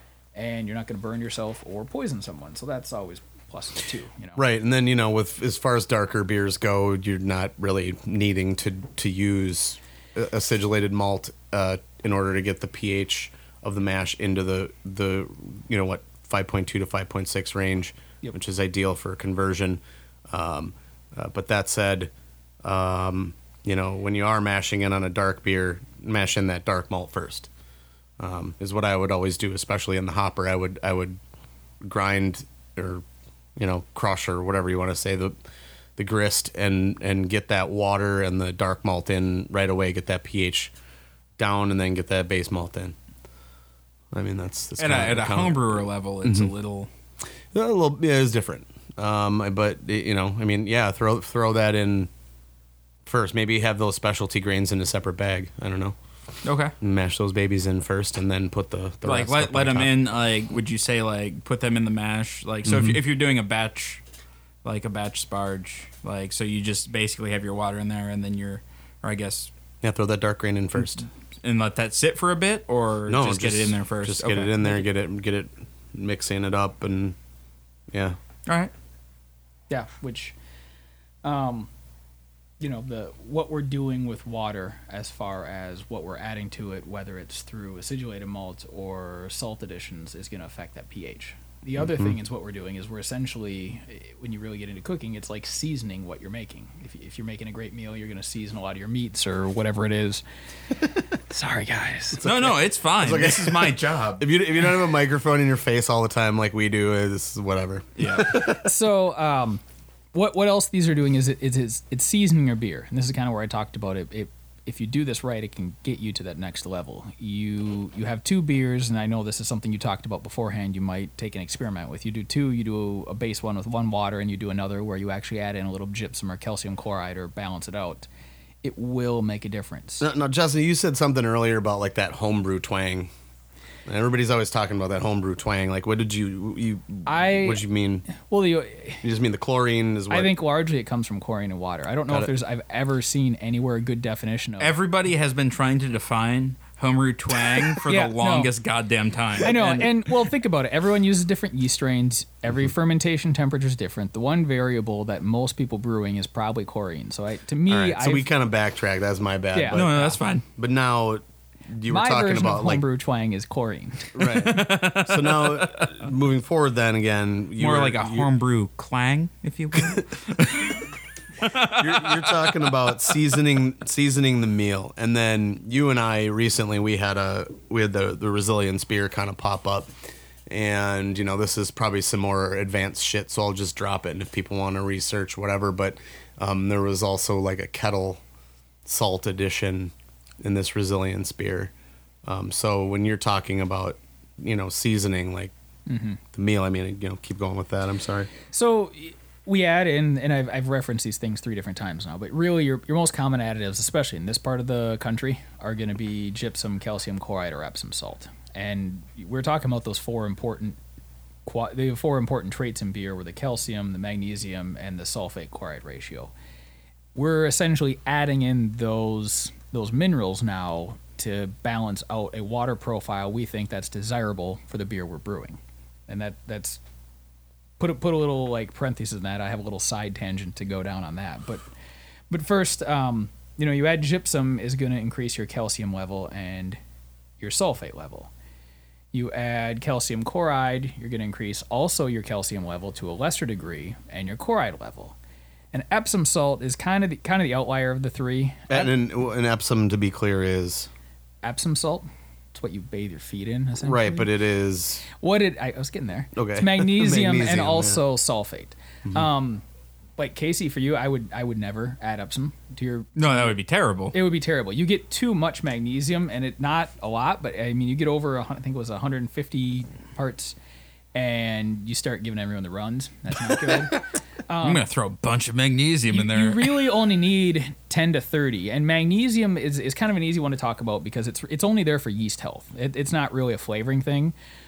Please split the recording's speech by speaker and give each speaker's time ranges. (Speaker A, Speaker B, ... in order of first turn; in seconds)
Speaker A: 0.3-4.4, 79.7-80.3, 81.2-81.7, 82.6-100.2, 101.3-102.2, 108.4-109.6, 110.1-128.1, 128.6-130.1, 137.1-139.0, 140.1-144.7, 147.8-148.5, 149.4-158.3, 159.5-160.2, 161.9-164.2, 195.9-196.2, 198.4-210.8, 211.4-216.3, 217.1-226.8, 227.8-231.6, 232.3-236.8, 237.4-238.3, 239.1-245.2, 245.7-248.9, 251.4-254.3, 255.1-259.6, 260.2-263.6, 264.1-270.6, 271.1-274.8, 276.1-284.3
Speaker B: 4.3-22.1, 22.6-27.5, 28.2-31.2, 31.8-33.0, 33.6-35.3, 36.0-40.7, 41.4-42.9, 44.1-45.7, 46.2-46.5, 47.5-52.1, 53.0-56.0, 56.8-59.9, 62.6-63.0, 69.8-71.1, 73.1-77.2, 77.9-78.2, 91.8-92.1, 102.2-108.6, 130.0-133.1, 133.8-138.1, 139.0-140.3, 157.7-159.9, 160.6-162.8, 164.1-168.3, 171.6-179.9, 180.5-188.2, 188.8-191.7, 192.2-195.5, 196.3-198.3, 248.7-250.9, 253.8-255.1, 256.3-258.0
Speaker C: 44.8-46.9, 56.4-56.7, 59.0-64.0, 64.6-69.5, 71.4-74.7, 102.2-104.2, 108.0-108.5, 144.6-150.1, 159.7-160.4, 164.2-165.9, 167.6-170.9, 171.4-172.7, 263.1-264.1, 274.6-276.8